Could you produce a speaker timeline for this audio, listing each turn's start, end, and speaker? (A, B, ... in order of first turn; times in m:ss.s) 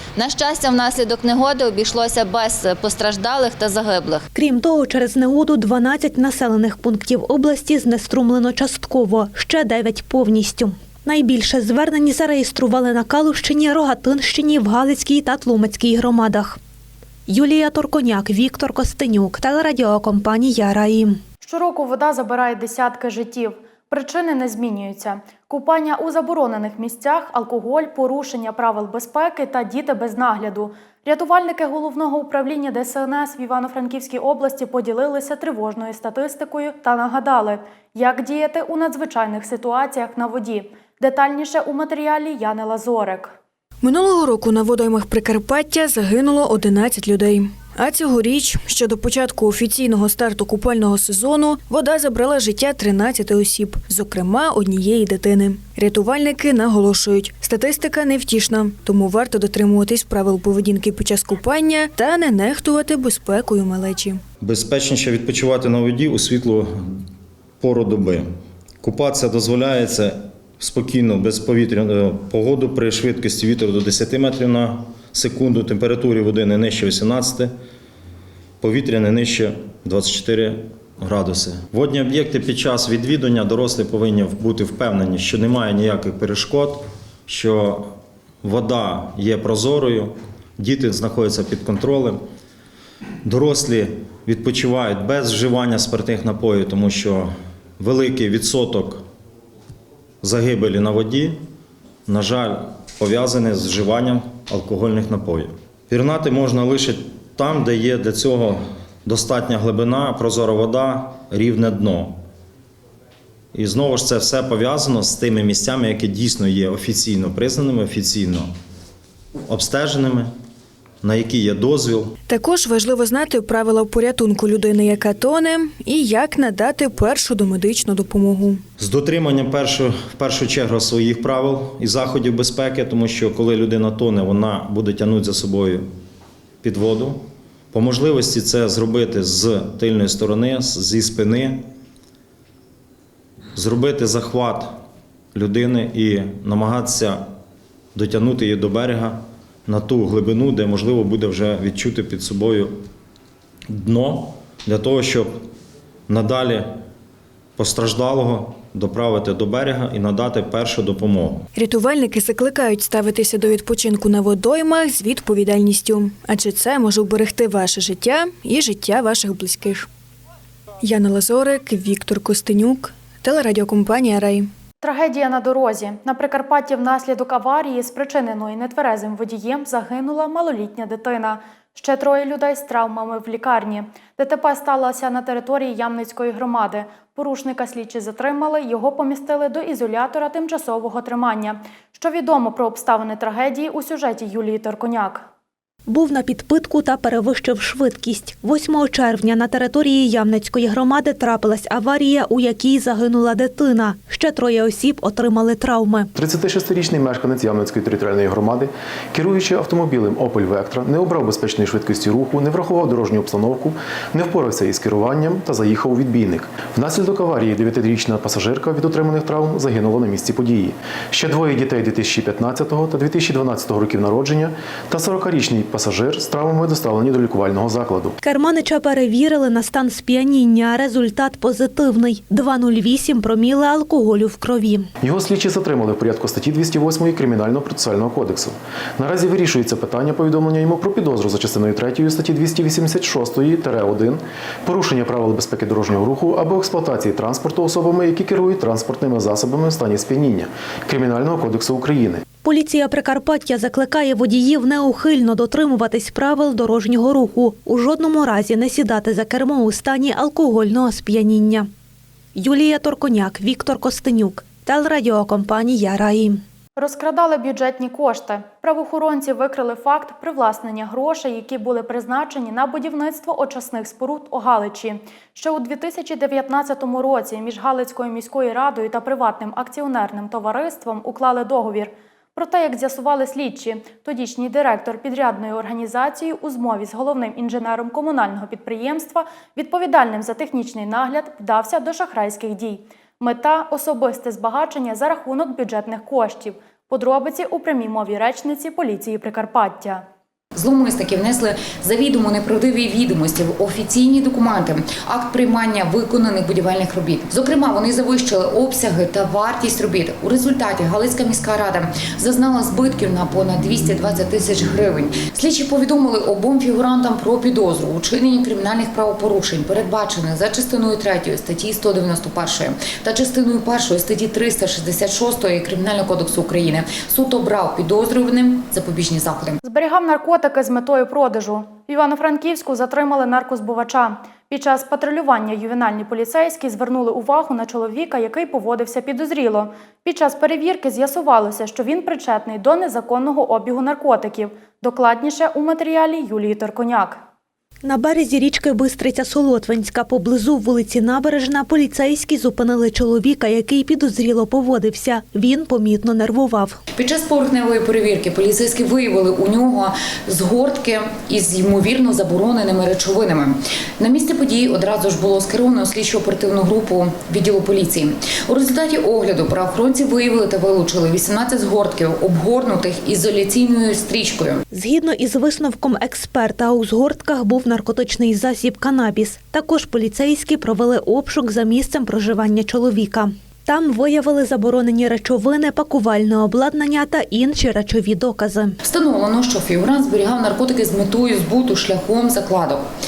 0:00.2-0:04.2 A
0:04.3-0:16.6 B
0:17.3-0:21.2 B
0:21.4-0:43.4 C
0:43.8-1:04.2 D
1:04.4-1:06.8 E
1:07.6-1:08.2 E
1:08.8-1:17.5 E
1:18.6-1:27.9 E
1:28.4-1:32.2 E
1:33.2-1:39.0 E
1:40.2-1:41.4 E
1:42.1-1:52.2 E
1:53.5-1:58.5 E
1:59.5-2:00.3 E
2:01.0-2:02.1 E
2:02.3-2:08.6 D
2:08.8-2:15.8 E
2:16.6-2:21.6 E
2:23.5-2:24.7 E
2:25.3-2:27.2 E
2:27.9-2:32.7 E
2:33.7-2:35.4 E
2:36.1-2:36.7 E
2:37.6-2:41.4 E
2:41.5-2:49.9 D
2:50.8-2:54.5 D
2:54.8-3:15.3 C
3:15.9-3:26.1 B
3:26.2-3:48.1 F
3:48.2-3:54.9 B
3:55.0-4:12.2 F
4:12.4-4:21.7 B
4:22.3-4:26.4 B
4:26.8-5:00.0 C
5:00.5-5:29.6 G
5:29.6-5:47.2 C
5:47.8-5:56.8 B
5:57.0-6:14.6 G
6:14.7-6:28.8 B
6:28.8-6:32.8 G